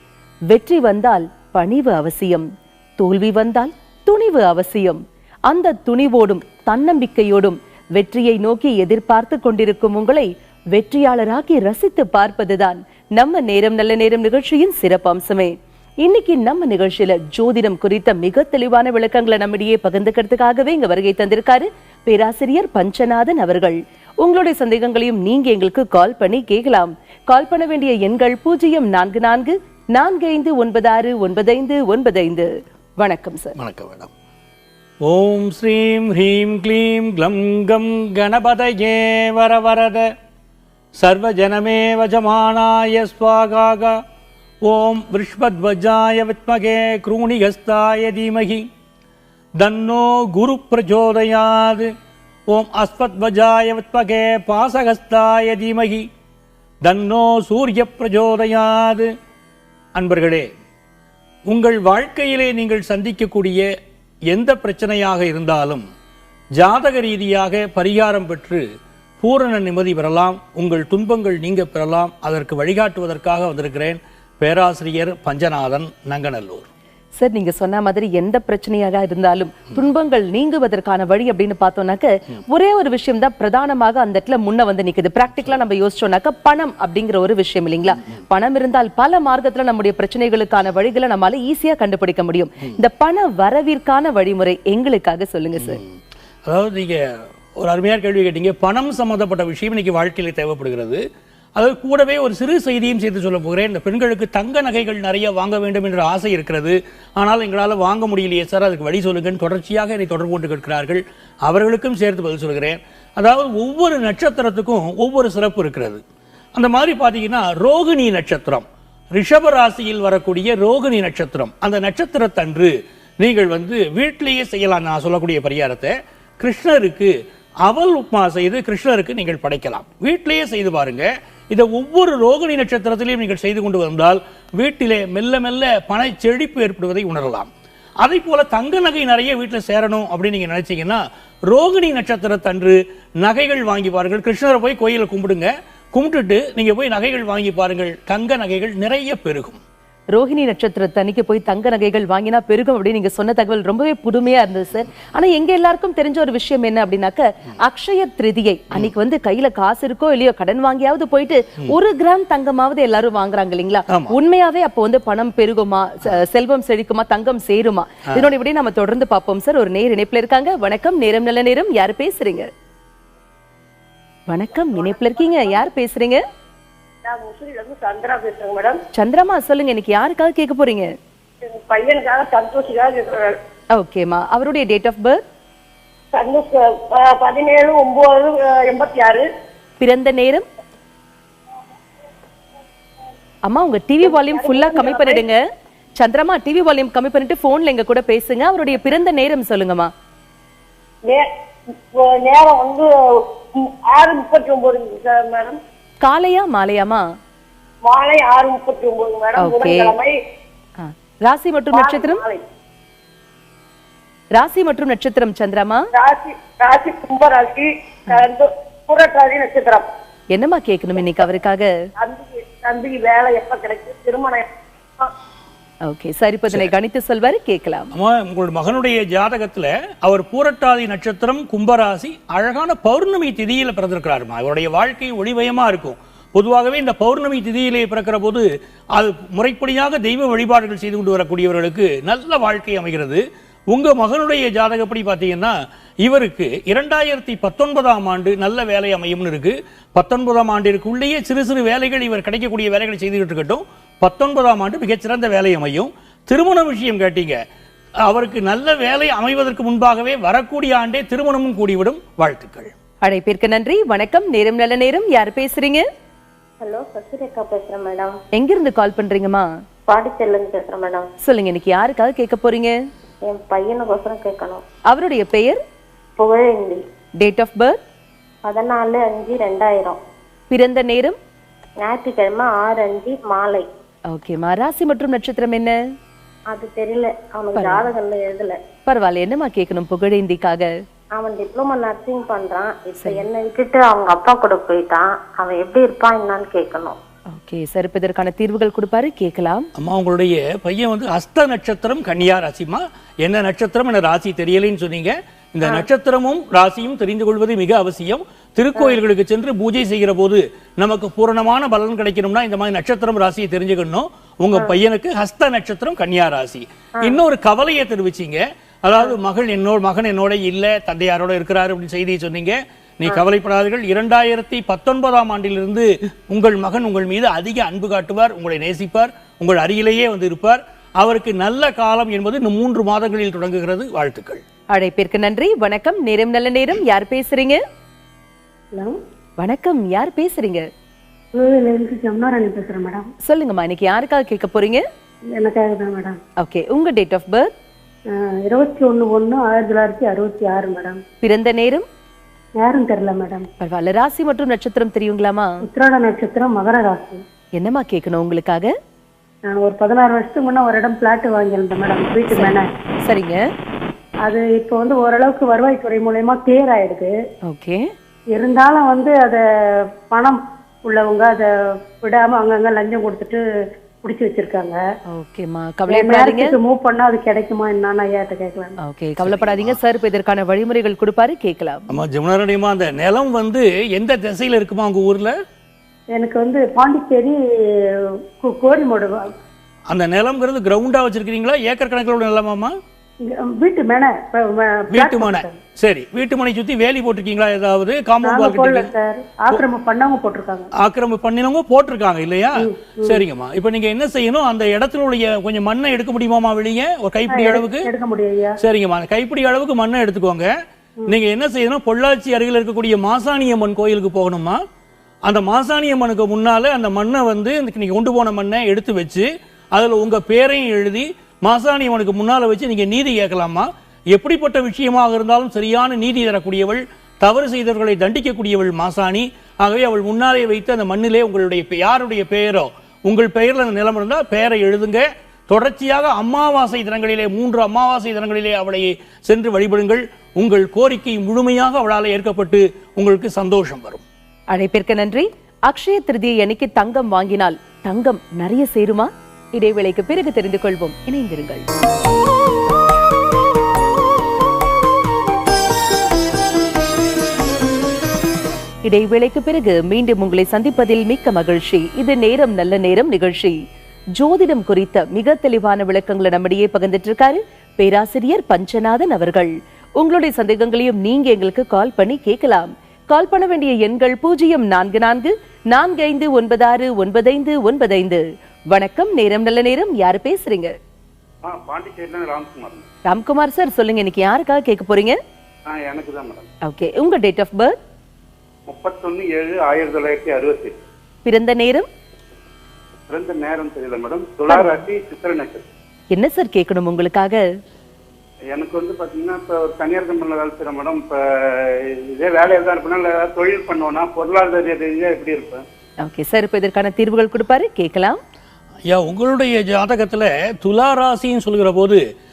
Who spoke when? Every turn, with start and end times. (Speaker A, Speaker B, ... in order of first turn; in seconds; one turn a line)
Speaker A: 0.5-2.5
Speaker A: 3.0-33.5
Speaker B: 33.6-34.1
Speaker B: 35.0-40.1
Speaker B: 41.0-44.0
Speaker B: 44.6-48.6
Speaker B: 49.6-51.9
Speaker B: 52.5-56.1
Speaker B: 56.8-59.1
Speaker B: 60.0-60.5
Speaker B: 61.5-63.6
Speaker B: 64.3-65.9
Speaker B: 66.6-68.7
Speaker B: 69.2-76.7
Speaker A: 77.2-95.8
Speaker B: 95.6-101.0
Speaker B: 101.6-116.0
Speaker B: 116.6-127.1
Speaker B: 127.7-137.5
Speaker B: 138.0-149.6
Speaker A: 150.1-172.5
Speaker B: 163.9-164.2
Speaker A: 174.3-176.2
Speaker C: 177.0-178.8
Speaker A: 178.9-180.9
Speaker C: 181.4-183.4
Speaker A: 183.8-185.2
Speaker C: 186.1-189.3
Speaker A: 189.8-190.5
Speaker A: 193.5-195.4
Speaker C: 194.0-195.2
Speaker A: 196.0-199.9
Speaker C: 201.9-205.6
Speaker A: 206.0-207.1
Speaker C: 207.8-210.1
Speaker A: 209.4-210.0
Speaker A: 210.8-212.2
Speaker C: 211.7-212.4
Speaker A: 214.4-215.9
Speaker C: 215.9-219.9
Speaker A: 220.3-221.7
Speaker C: 222.0-224.5
Speaker A: 225.8-227.9
Speaker B: 227.9-245.5
Speaker B: 246.0-257.4
Speaker B: 258.1-262.7
Speaker A: 263.0-265.9
Speaker D: 266.6-268.2
Speaker A: 268.4-269.5
Speaker D: 269.9-271.1
Speaker A: 271.2-272.7
Speaker D: 273.3-274.6
Speaker A: 274.9-275.6
Speaker D: 276.2-276.8
Speaker A: 277.2-277.8
Speaker D: 278.4-280.0
Speaker A: 280.5-281.2
Speaker D: 281.8-283.7
Speaker A: 284.1-285.8
Speaker D: 286.5-288.6
Speaker A: 287.6-287.9
Speaker A: 288.9-290.7
Speaker D: 291.1-297.0
Speaker A: 297.3-299.7
Speaker B: 299.8-334.4
Speaker A: 334.7-337.6
Speaker A: 339.4-340.7
Speaker E: 341.3-343.1
Speaker A: 343.2-344.8
Speaker E: 345.3-346.2
Speaker A: 346.4-347.5
Speaker E: 348.1-351.0
Speaker A: 351.2-351.9
Speaker E: 352.6-353.5
Speaker A: 353.6-355.6
Speaker E: 355.6-357.2
Speaker A: 357.6-358.7
Speaker E: 359.5-362.7
Speaker A: 362.3-363.5
Speaker E: 364.2-367.1
Speaker A: 367.5-367.9
Speaker E: 368.3-369.4
Speaker E: 370.1-373.4
Speaker E: 374.0-374.8
Speaker A: 375.1-376.6
Speaker E: 375.9-378.8
Speaker A: 378.8-381.9
Speaker B: 379.2-379.8
Speaker B: 381.9-385.3
Speaker E: 386.1-387.4
Speaker E: 388.4-389.3
Speaker B: 389.9-392.7
Speaker E: 393.2-395.6
Speaker B: 394.9-398.9
Speaker E: 398.2-400.7
Speaker B: 400.8-407.9
Speaker E: 402.6-403.2
Speaker E: 407.3-408.6
Speaker B: 408.6-410.5
Speaker B: 411.1-414.6
Speaker B: 415.3-444.0
Speaker A: 444.5-451.6
Speaker A: 458.9-463.6
Speaker A: 464.2-480.7
Speaker F: 481.4-482.9
Speaker A: 483.1-485.2
Speaker F: 485.7-486.5
Speaker A: 486.6-487.8
Speaker F: 488.7-490.8
Speaker A: 491.2-491.9
Speaker F: 493.1-495.6
Speaker A: 494.5-494.8
Speaker A: 496.1-497.4
Speaker F: 498.5-505.6
Speaker A: 506.0-508.2
Speaker B: 508.9-512.0